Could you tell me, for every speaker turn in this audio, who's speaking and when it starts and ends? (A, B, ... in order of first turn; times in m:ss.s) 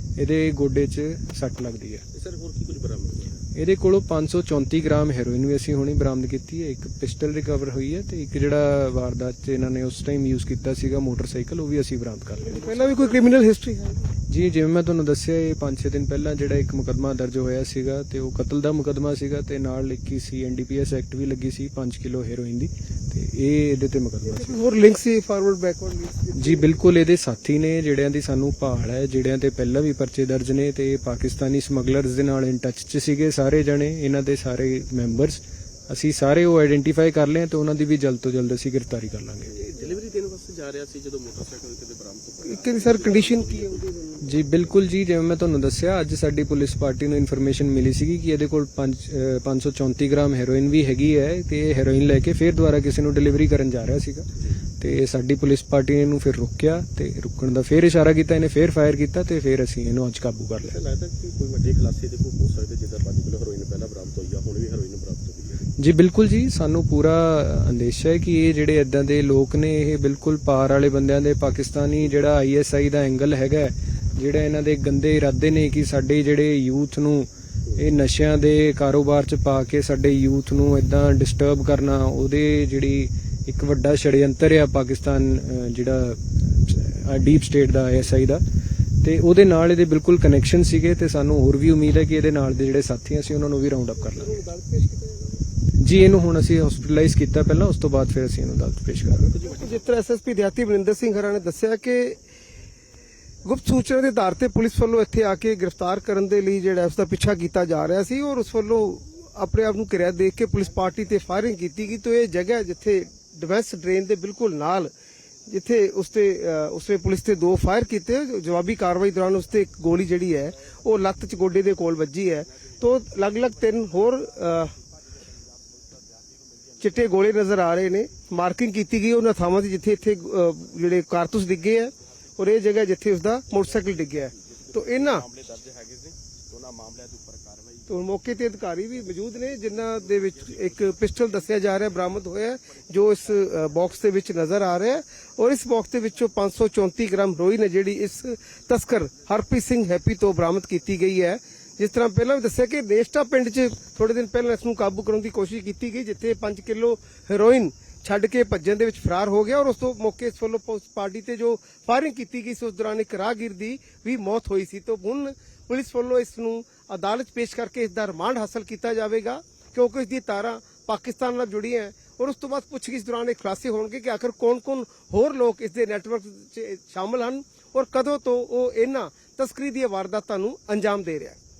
0:00.2-0:02.0 A
0:02.1-0:03.4 B
0:03.5-0:12.9 A
0:12.4-0:14.1 C
0:12.8-0:13.2 B
0:14.3-0:24.6 A
0:24.2-0:26.7 C
0:26.4-0:39.5 A
0:39.5-0:43.9 B
0:42.4-0:44.2 C
0:44.2-0:54.2 A
0:54.8-1:00.8 A
1:00.6-1:05.7 B
1:05.8-1:28.4 A
1:29.0-1:34.4 A
1:34.1-1:35.4 C
1:35.8-1:39.4 A
1:39.2-1:39.9 B
1:39.4-1:42.2 C
1:43.4-1:54.9 C
1:55.5-2:04.7 C
2:06.8-2:15.2 C
2:07.0-2:07.4 B
2:13.6-2:18.0 B
2:17.9-3:01.4 C
2:19.7-2:22.3 B
2:23.2-2:23.6 B